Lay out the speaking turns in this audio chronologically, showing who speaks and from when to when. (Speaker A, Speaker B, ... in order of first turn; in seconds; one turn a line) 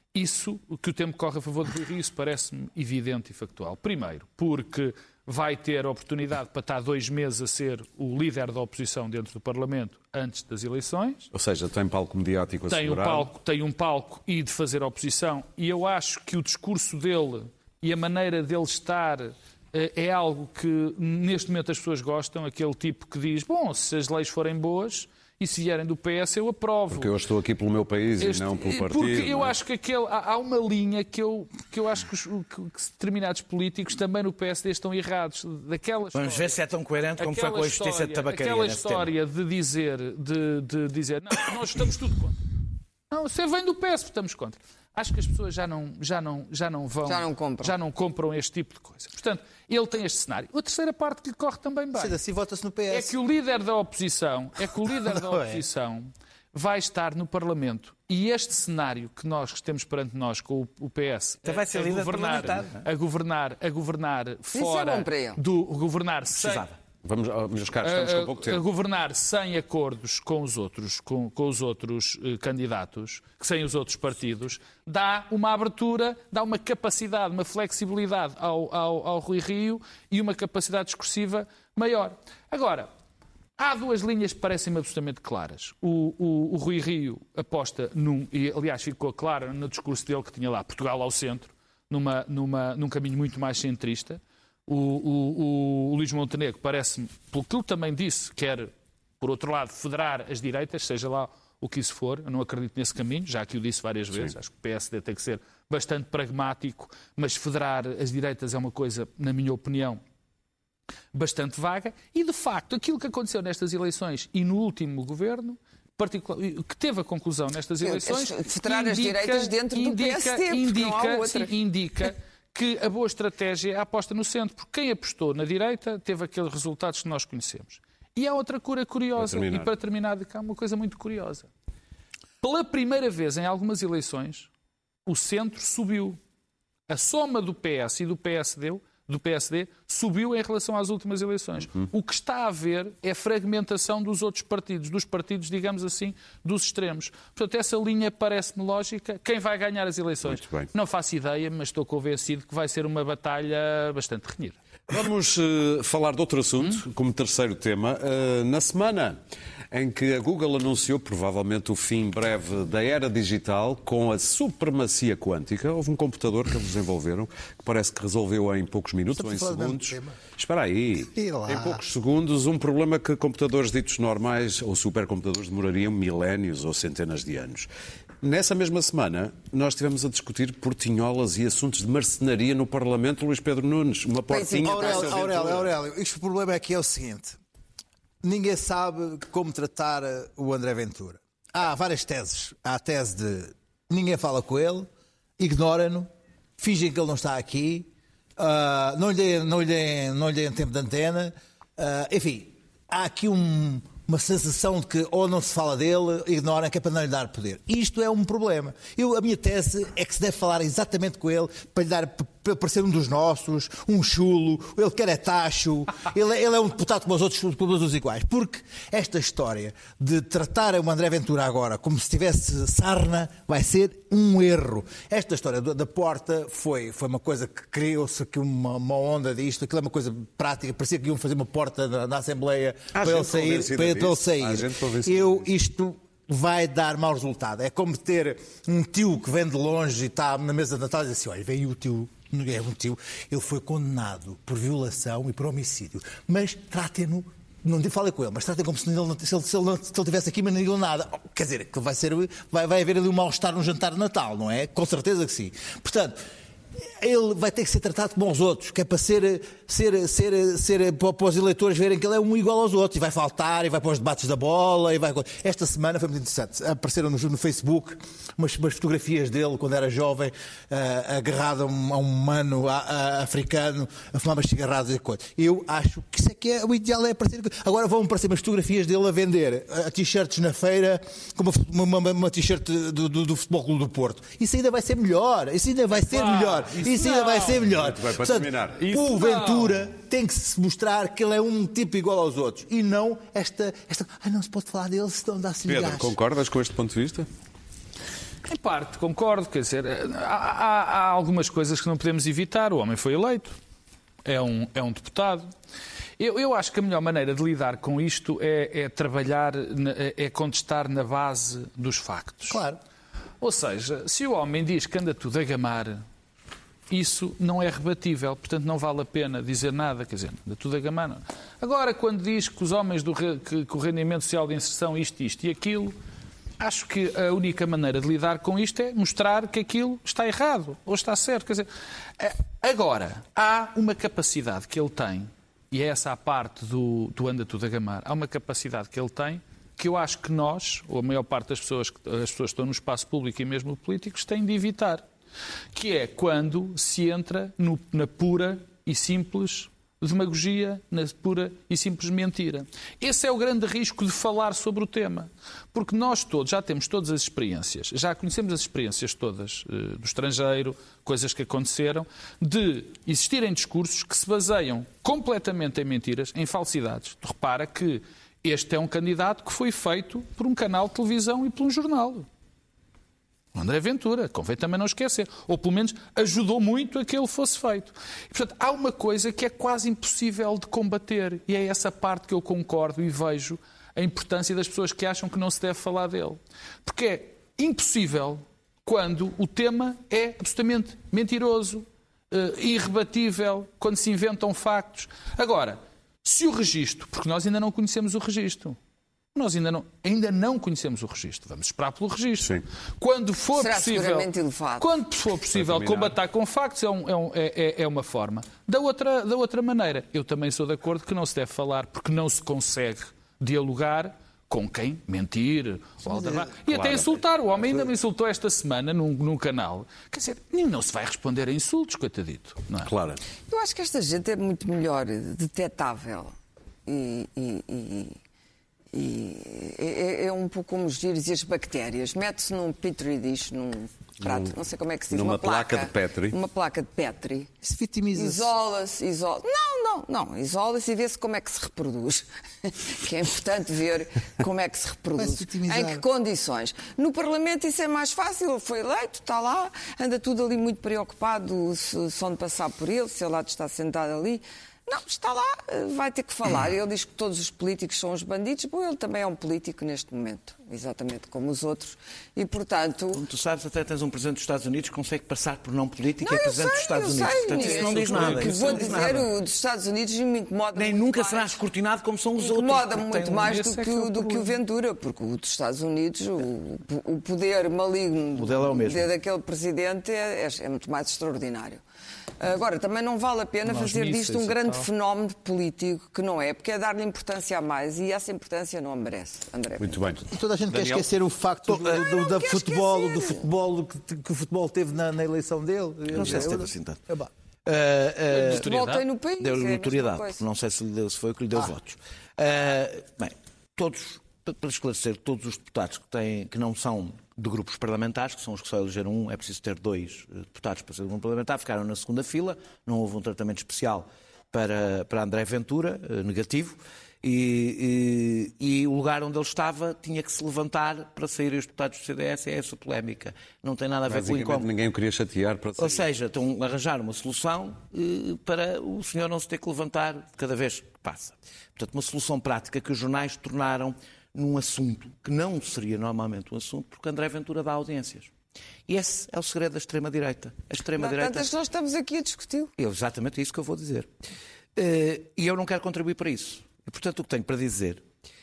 Speaker A: 0.1-11.3
Speaker B: 11.3-13.3
Speaker A: 12.7-27.1
Speaker B: 26.9-29.5
Speaker A: 28.2-36.6
Speaker C: 36.1-39.1
Speaker A: 37.2-42.4
Speaker A: 43.1-52.2
Speaker D: 47.0-47.8
Speaker E: 52.0-53.1
Speaker A: 52.9-66.7
Speaker E: 55.1-55.6
Speaker C: 61.5-62.8
Speaker D: 64.5-65.4
Speaker C: 66.3-66.8
Speaker B: 67.0-68.6
Speaker A: 67.8-82.9
Speaker A: 83.6-110.0
Speaker A: 111.1-131.5
Speaker D: 117.8-121.5
Speaker B: 129.2-129.7
Speaker A: 132.4-134.5
Speaker A: 135.1-136.2
Speaker A: 136.9-154.6
Speaker B: 150.2-150.7
Speaker B: 154.9-159.2
Speaker B: 159.7-177.7
Speaker E: 169.1-170.2
Speaker E: 171.1-171.8
Speaker B: 178.2-185.7
Speaker D: 184.3-185.3
Speaker E: 184.6-187.4
Speaker E: 188.2-256.2
Speaker B: 232.9-235.4
Speaker E: 257.0-296.1
Speaker A: 286.0-287.6
Speaker B: 287.7-288.9
Speaker A: 288.8-289.8
Speaker B: 295.7-297.3
Speaker A: 298.5-303.6
Speaker A: 304.2-305.5
Speaker A: 306.2-312.6
Speaker E: 312.5-312.8
Speaker A: 313.4-316.0
Speaker A: 316.9-325.9
Speaker A: 326.6-345.1
Speaker A: 345.8-372.3
Speaker A: 373.6-398.8
Speaker A: 399.4-422.9
Speaker D: 403.6-404.9
Speaker B: 405.6-406.1
Speaker B: 416.7-417.1
Speaker B: 422.8-423.2
Speaker D: 423.5-426.4
Speaker D: 426.9-428.1
Speaker D: 428.9-437.5
Speaker B: 434.2-434.5
Speaker B: 435.1-436.4
Speaker E: 437.6-438.5
Speaker D: 438.1-463.2
Speaker E: 445.2-446.1
Speaker C: 463.1-469.3
Speaker D: 466.2-471.6
Speaker E: 467.8-468.3
Speaker A: 468.4-469.0
Speaker C: 470.7-473.6
Speaker D: 472.4-481.8
Speaker A: 473.4-474.6
Speaker C: 478.4-479.1
Speaker D: 482.4-490.1
Speaker A: 483.6-484.9
Speaker B: 489.8-491.1
Speaker E: 490.3-497.3
Speaker C: 491.7-491.9
Speaker D: 491.9-493.5
Speaker C: 496.1-497.0
Speaker C: 497.6-498.7
Speaker A: 498.3-499.1
Speaker D: 498.4-500.4
Speaker C: 499.4-524.7
Speaker B: 524.1-526.1
Speaker C: 525.8-538.3
Speaker C: 538.9-541.5
Speaker D: 541.0-542.7
Speaker C: 542.8-544.1
Speaker C: 544.8-548.0